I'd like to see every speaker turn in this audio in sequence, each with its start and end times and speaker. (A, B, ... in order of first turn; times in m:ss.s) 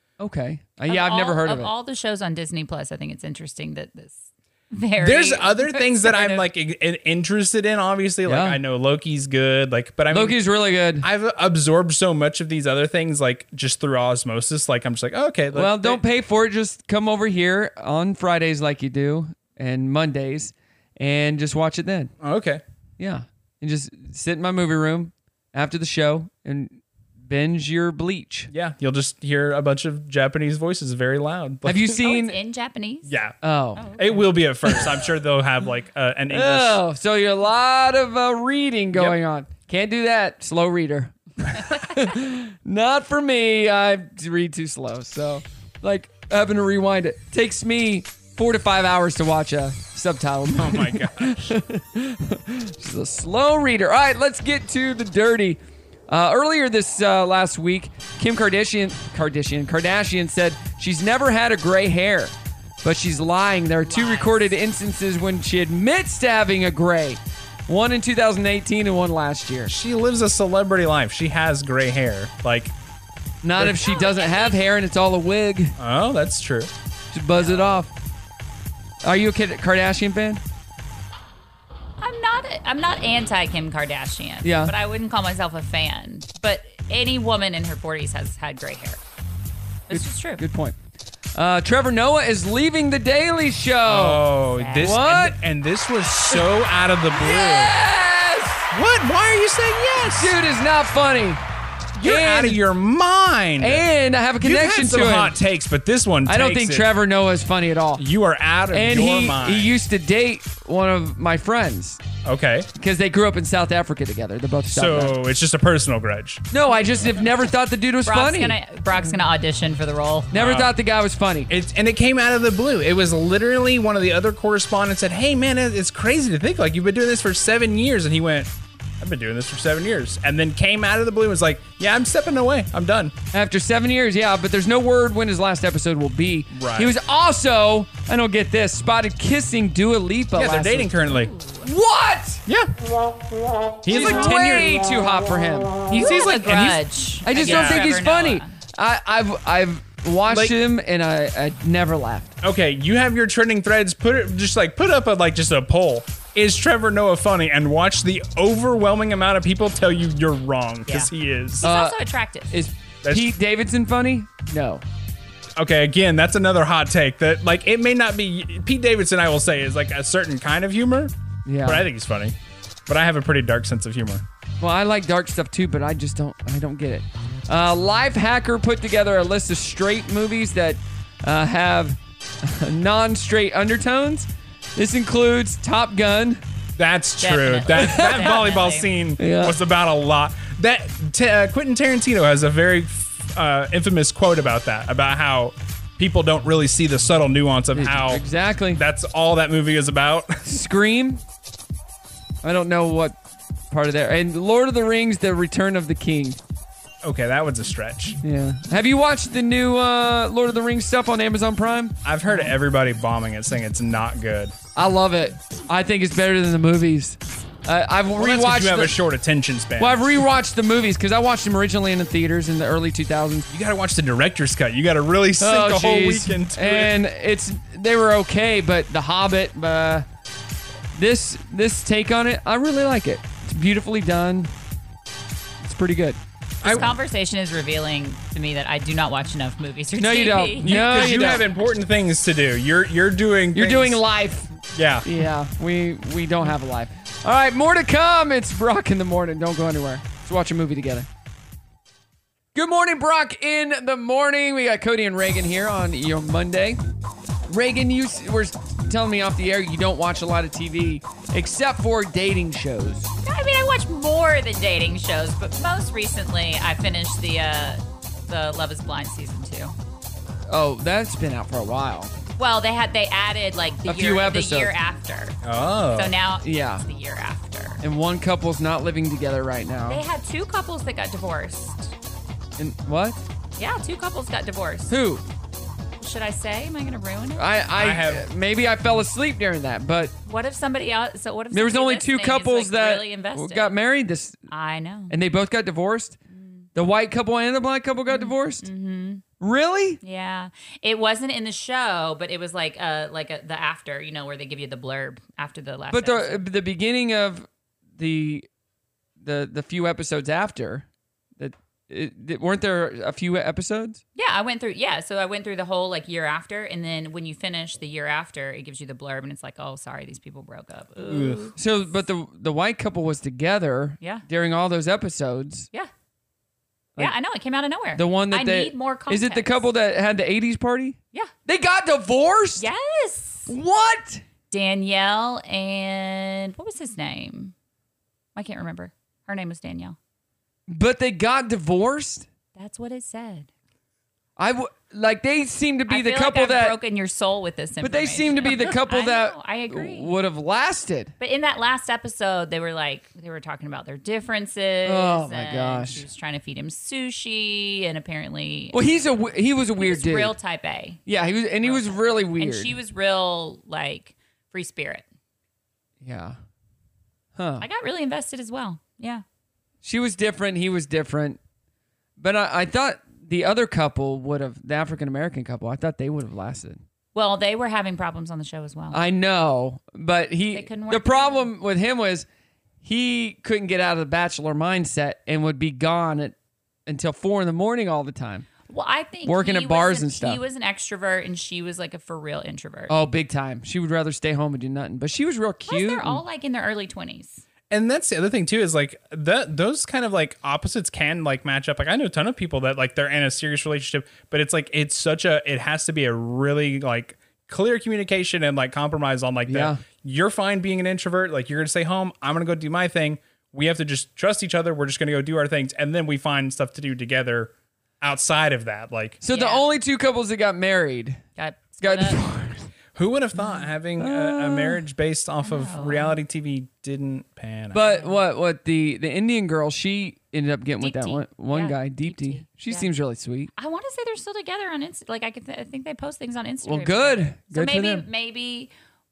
0:00.2-0:01.7 A
0:00.9-0:06.4 B
0:05.0-0:10.4 C
0:08.3-0:08.6 A
0:10.1-0:11.1 A
0:11.0-0:16.0 C
0:15.5-0:22.1 A
0:22.2-0:22.6 C
0:23.0-0:28.5 A
0:28.5-0:32.0 C
0:31.6-0:32.4 A
0:32.0-0:33.1 B
0:33.1-0:33.4 C
0:33.4-0:34.0 A
0:33.8-0:34.3 B
0:34.0-0:36.8 C
0:36.3-1:09.7 A
0:38.9-0:39.2 C
0:50.5-0:51.5 C
1:03.9-1:04.5 B
1:09.7-1:12.7 C
1:13.4-1:15.7 A
1:13.6-1:14.6 B
1:15.8-1:16.7 C
1:17.1-1:17.9 A
1:17.4-1:17.6 B
1:19.0-1:20.4 A
1:22.0-1:29.0 B
1:24.4-1:24.7 A
1:29.9-1:30.4 B
1:29.9-1:30.8 A
1:31.4-1:34.2 A
1:33.9-1:37.7 C
1:34.6-1:35.0 B
1:34.8-1:35.4 A
1:37.1-1:38.7 A
1:38.7-1:40.4 C
1:40.1-1:41.4 A
1:42.0-1:43.8 C
1:42.0-1:42.6 A
1:43.6-1:45.4 A
1:44.4-1:46.9 C
1:46.3-1:48.0 A
1:48.0-1:49.8 C
1:48.7-1:52.0 A
1:52.2-1:52.7 C
1:52.8-1:55.2 A
1:54.7-1:56.4 C
1:56.5-1:58.6 A
1:58.1-2:00.3 B
2:00.3-2:01.5 A
2:00.3-2:00.7 C
2:01.5-2:13.1 C
2:13.3-2:20.9 A
2:16.5-2:16.9 C
2:20.3-2:21.3 C
2:21.0-2:21.7 B
2:21.6-2:22.4 A
2:23.8-2:24.8 C
2:23.9-2:25.8 A
2:25.9-2:26.8 C
2:25.9-2:28.5 B
2:27.2-2:32.3 A
2:27.3-2:27.9 C
2:30.3-2:30.6 C
2:32.4-2:41.6 C
2:40.9-2:42.5 B
2:41.6-2:42.0 A
2:42.5-2:44.8 A
2:43.0-2:43.3 C
2:45.6-2:51.1 C
2:51.4-2:51.8 A
2:51.6-2:52.4 C
2:52.9-2:54.2 C
2:54.6-3:06.4 A
3:06.8-3:20.6 C
3:07.2-3:08.9 B
3:07.7-3:08.4 A
3:09.2-3:09.6 A
3:17.7-3:18.8 A
3:20.4-3:21.2 A
3:22.4-3:23.2 A
3:23.7-3:26.4 A
3:27.0-3:28.2 C
3:28.2-3:32.4 A
3:32.0-3:34.5 C
3:34.8-3:39.0 A
3:38.1-3:40.0 C
3:39.8-3:43.5 A
3:43.5-3:46.9 C
3:45.4-3:50.1 A
3:50.9-3:54.5 A
3:55.6-3:56.2 A
3:56.6-3:56.9 C
3:56.6-4:01.4 B
4:00.0-4:01.4 A
4:00.6-4:04.0 C
4:03.5-4:04.5 A
4:04.7-4:05.1 C
4:05.0-4:11.1 A
4:12.6-4:16.8 A
4:17.5-4:23.1 A
4:23.2-4:29.7 B
4:30.5-4:32.1 A
4:32.4-4:35.4 B
4:33.9-4:34.7 A
4:35.4-4:36.1 C
4:35.9-4:37.8 B
4:36.4-4:36.8 A
4:37.8-4:40.0 A
4:39.9-4:41.9 B
4:42.6-4:43.2 A
4:43.6-4:44.9 B
4:44.9-4:45.2 A
4:46.0-4:47.7 B
4:47.4-4:50.1 A
4:47.8-4:48.3 C
4:50.3-4:53.7 B
4:51.5-4:54.4 A
4:54.5-4:55.1 B
4:55.1-4:56.2 A
4:56.3-4:56.7 B
4:56.7-4:58.7 A
4:58.1-4:59.2 B
4:59.4-5:00.0 A
5:00.0-5:06.4 B
5:05.9-5:07.4 A
5:08.0-5:08.4 A
5:09.2-5:10.9 A
5:11.4-5:14.0 A
5:14.2-5:21.6 B
5:21.0-5:21.5 C
5:21.6-5:25.7 A
5:27.0-5:29.7 B
5:28.0-5:32.7 A
5:32.6-5:33.5 B
5:33.5-5:34.2 A
5:34.5-5:37.5 B
5:38.4-5:40.0 B
5:40.7-5:42.3 A
5:42.6-5:43.5 B
5:44.4-5:46.8 A
5:45.9-5:50.1 B
5:47.8-5:51.1 A
5:51.2-5:59.0 B
5:54.9-5:56.0 A
5:58.7-6:00.3 A
5:59.8-6:01.0 B
6:01.1-6:02.7 A
6:01.6-6:05.0 B
6:06.0-6:06.4 A
6:07.4-6:07.7 A
6:07.6-6:09.2 B
6:09.8-6:11.4 A
6:12.2-6:16.8 A
6:17.1-6:19.0 B
6:18.9-6:22.3 A
6:20.5-6:21.5 B
6:22.8-6:26.4 A
6:26.9-6:28.5 A
6:28.7-6:32.9 B
6:29.3-6:30.4 A
6:32.9-6:36.2 A
6:35.7-6:37.4 B
6:37.7-6:59.2 C
6:49.5-6:49.8 A
6:59.2-7:01.2 A
6:59.3-6:59.7 B
7:01.4-7:02.2 B
7:01.8-7:02.7 A
7:03.0-7:07.8 C
7:03.4-7:03.6 B
7:04.0-7:04.8 A
7:05.4-7:06.2 B
7:07.7-7:13.5 A
7:07.8-7:08.2 B
7:10.8-7:12.9 B
7:13.6-7:18.7 B
7:16.6-7:18.1 A